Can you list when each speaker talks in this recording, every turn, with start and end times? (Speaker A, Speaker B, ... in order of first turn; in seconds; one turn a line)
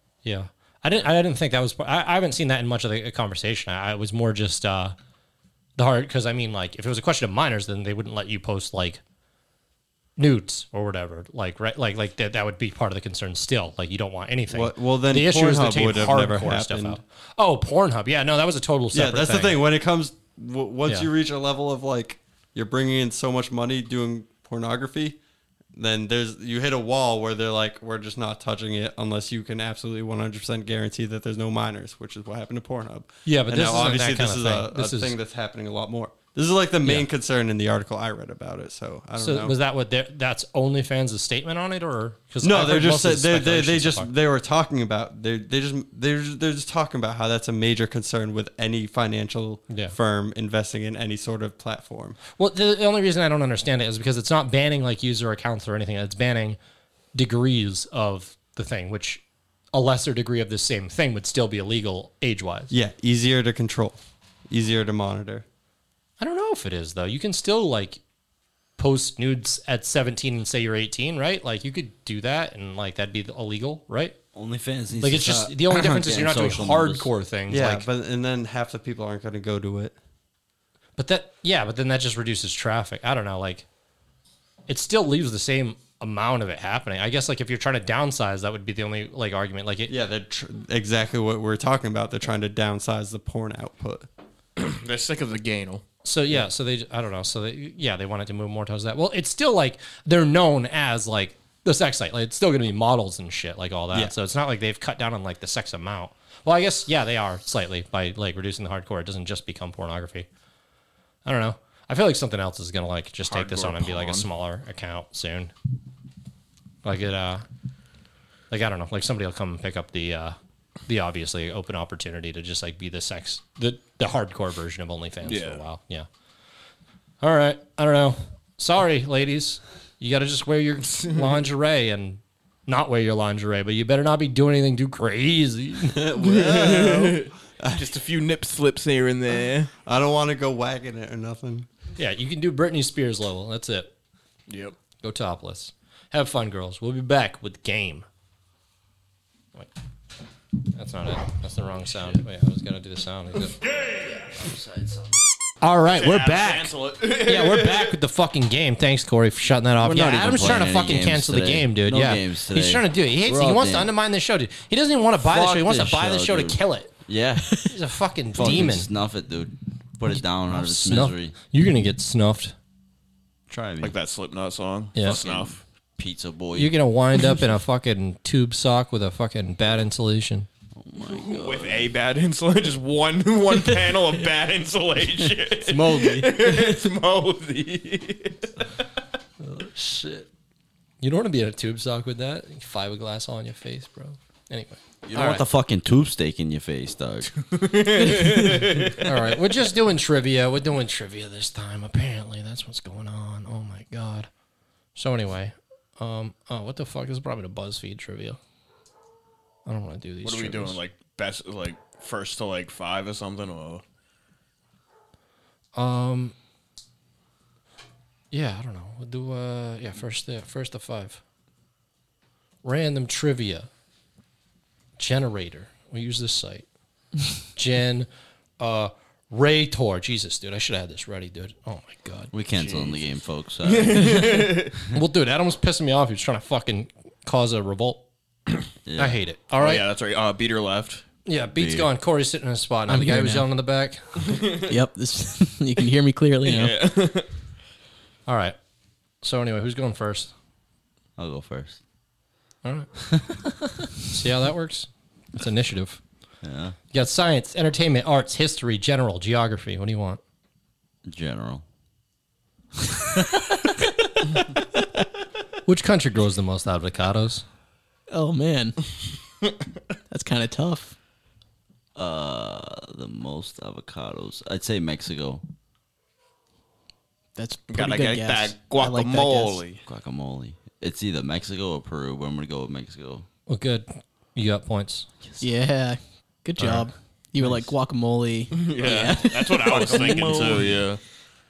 Speaker A: 0.2-5.0
Speaker A: 5.8-9.0
Speaker A: 10.2-19.6
Speaker B: 14.5-17.0
Speaker B: 18.9-25.2
Speaker B: 25.7-39.6
Speaker A: 33.3-35.2
Speaker A: 39.2-44.1
Speaker B: 42.4-52.2
Speaker A: 49.7-50.0
Speaker A: 52.4-56.6
Speaker A: 57.1-59.2
Speaker A: 59.7-62.7
Speaker B: 62.7-65.5
Speaker A: 66.2-68.0
Speaker A: 68.8-74.2
Speaker C: 74.3-77.1
Speaker A: 75.0-77.9
Speaker B: 77.5-80.0
Speaker A: 81.0-83.7
Speaker A: 84.7-89.9
Speaker B: 89.9-94.1
Speaker D: 94.6-95.8
Speaker A: 96.0-110.3
Speaker A: 111.2-115.5
Speaker D: 113.3-114.3
Speaker A: 116.8-117.5
Speaker A: 118.5-120.4
Speaker A: 120.9-126.1
Speaker D: 125.2-125.6
Speaker A: 127.2-136.0
Speaker B: 135.9-137.9
Speaker D: 136.2-139.7
Speaker B: 139.8-141.7
Speaker A: 142.0-143.9
Speaker D: 144.5-144.8
Speaker A: 145.0-148.1
Speaker A: 150.7-153.6
Speaker C: 154.4-155.0
Speaker A: 155.6-166.9
Speaker D: 155.9-158.0
Speaker C: 159.8-163.9
Speaker C: 165.2-167.7
Speaker A: 167.7-168.9
Speaker C: 168.3-171.3
Speaker A: 170.2-172.6
Speaker C: 173.5-173.9
Speaker D: 173.8-175.6
Speaker C: 175.0-176.8
Speaker A: 176.6-180.5
Speaker C: 180.8-181.9
Speaker D: 181.0-188.5
Speaker A: 185.7-186.5
Speaker A: 189.4-190.3
Speaker A: 191.0-195.4
Speaker C: 195.1-197.3
Speaker D: 197.3-199.1
Speaker A: 199.0-204.3
Speaker A: 204.9-208.4
Speaker A: 209.7-210.8
Speaker D: 210.2-213.8
Speaker A: 215.8-216.3
Speaker A: 218.3-221.2
Speaker A: 222.6-223.7
Speaker A: 225.0-226.7
Speaker A: 227.5-228.1
Speaker A: 228.6-232.3
Speaker C: 232.3-234.4
Speaker D: 232.5-233.0
Speaker D: 233.6-234.7
Speaker A: 234.9-238.0
Speaker C: 238.9-239.2
Speaker A: 239.0-239.9
Speaker D: 239.6-241.0
Speaker A: 241.3-244.4
Speaker C: 241.6-241.9
Speaker E: 242.9-243.5
Speaker D: 244.2-244.7
Speaker E: 244.7-246.8
Speaker D: 246.4-247.3
Speaker A: 248.3-248.6
Speaker A: 249.2-250.3
Speaker C: 251.2-251.8
Speaker A: 252.6-253.4
Speaker A: 254.1-256.0
Speaker C: 256.4-256.8
Speaker A: 256.9-260.2
Speaker C: 261.1-261.6
Speaker A: 265.7-267.4
Speaker E: 268.1-268.9
Speaker E: 270.1-271.0
Speaker C: 271.9-275.4
Speaker E: 277.4-279.6
Speaker D: 277.7-279.8
Speaker C: 279.9-283.3
Speaker A: 283.5-285.1
Speaker E: 285.4-290.5
Speaker A: 286.6-287.7
Speaker D: 288.5-291.0
Speaker C: 289.7-290.8